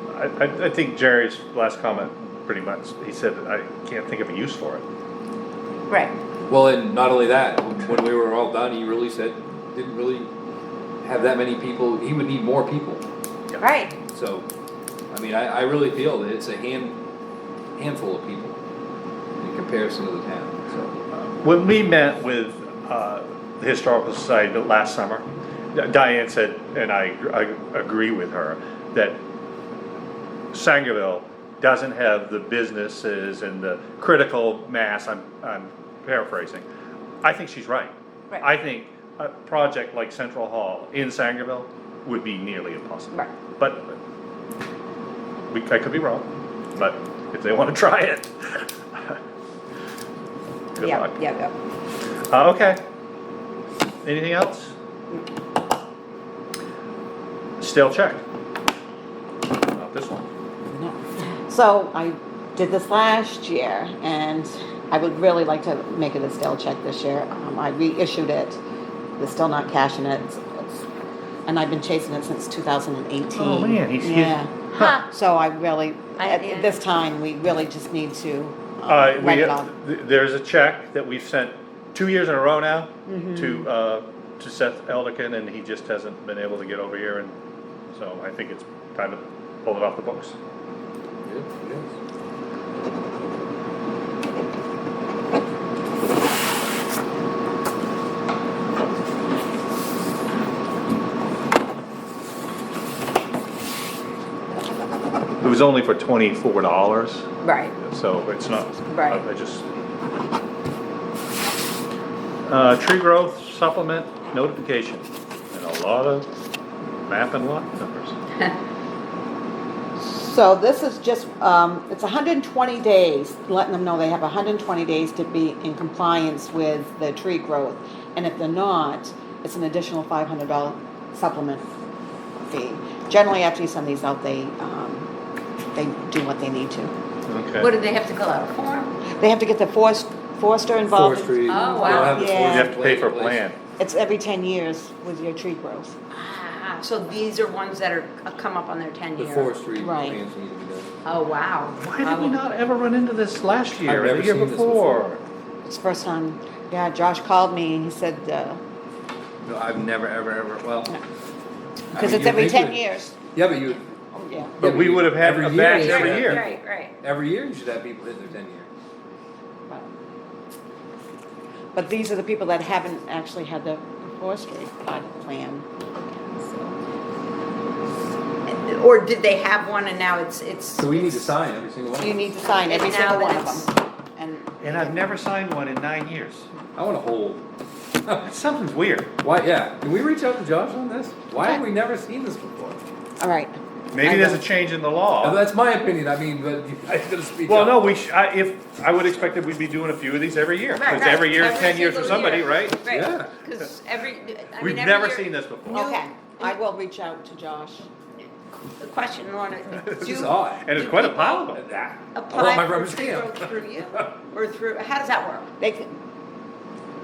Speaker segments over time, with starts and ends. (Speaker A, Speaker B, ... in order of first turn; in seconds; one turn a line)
Speaker A: 0.1-4.8
Speaker B: 5.9-6.1
Speaker C: 6.5-10.3
Speaker C: 11.0-13.0
Speaker B: 13.6-13.9
Speaker C: 14.1-14.5
Speaker C: 15.1-17.0
Speaker C: 17.8-18.6
Speaker C: 19.4-21.0
Speaker A: 21.1-29.2
Speaker A: 30.5-36.6
Speaker A: 37.2-44.0
Speaker A: 45.5-49.2
Speaker A: 50.8-51.1
Speaker B: 50.8-51.5
Speaker A: 52.3-52.8
Speaker A: 54.0-54.7
Speaker A: 57.6-58.2
Speaker A: 59.7-60.2
Speaker D: 60.7-68.6
Speaker D: 69.2-70.8
Speaker D: 71.5-79.7
Speaker A: 73.3-74.9
Speaker B: 74.7-75.0
Speaker B: 76.2-76.8
Speaker A: 78.9-87.3
Speaker D: 83.1-83.7
Speaker A: 87.9-90.3
Speaker C: 91.2-91.9
Speaker A: 105.4-107.3
Speaker B: 107.4-107.7
Speaker A: 107.8-109.7
Speaker B: 108.9-109.2
Speaker A: 112.4-116.3
Speaker A: 117.1-118.2
Speaker D: 120.0-131.6
Speaker D: 132.5-135.1
Speaker D: 135.7-136.9
Speaker A: 137.3-137.7
Speaker B: 137.6-139.0
Speaker D: 139.1-142.7
Speaker C: 140.9-143.4
Speaker B: 141.4-142.3
Speaker A: 142.4-143.6
Speaker D: 143.8-146.0
Speaker B: 146.1-149.5
Speaker C: 149.2-150.9
Speaker D: 149.8-150.2
Speaker B: 151.0-152.4
Speaker A: 151.8-155.2
Speaker C: 153.8-155.1
Speaker D: 155.6-158.6
Speaker C: 159.4-161.0
Speaker C: 161.9-162.8
Speaker D: 161.9-163.2
Speaker C: 163.3-168.7
Speaker D: 164.2-164.6
Speaker A: 164.6-166.4
Speaker B: 165.7-166.9
Speaker D: 171.7-176.8
Speaker B: 178.5-181.3
Speaker C: 180.8-182.3
Speaker D: 182.0-185.0
Speaker B: 182.4-183.7
Speaker A: 184.6-186.5
Speaker C: 186.8-187.4
Speaker A: 188.2-189.1
Speaker C: 189.2-192.8
Speaker D: 193.2-194.4
Speaker A: 193.9-195.4
Speaker C: 195.2-198.0
Speaker A: 197.4-202.8
Speaker B: 200.7-206.6
Speaker C: 202.9-203.3
Speaker A: 204.6-205.9
Speaker D: 205.7-207.9
Speaker B: 208.8-211.5
Speaker A: 209.9-211.6
Speaker C: 210.0-210.7
Speaker C: 211.5-214.2
Speaker B: 212.1-215.5
Speaker D: 215.6-215.9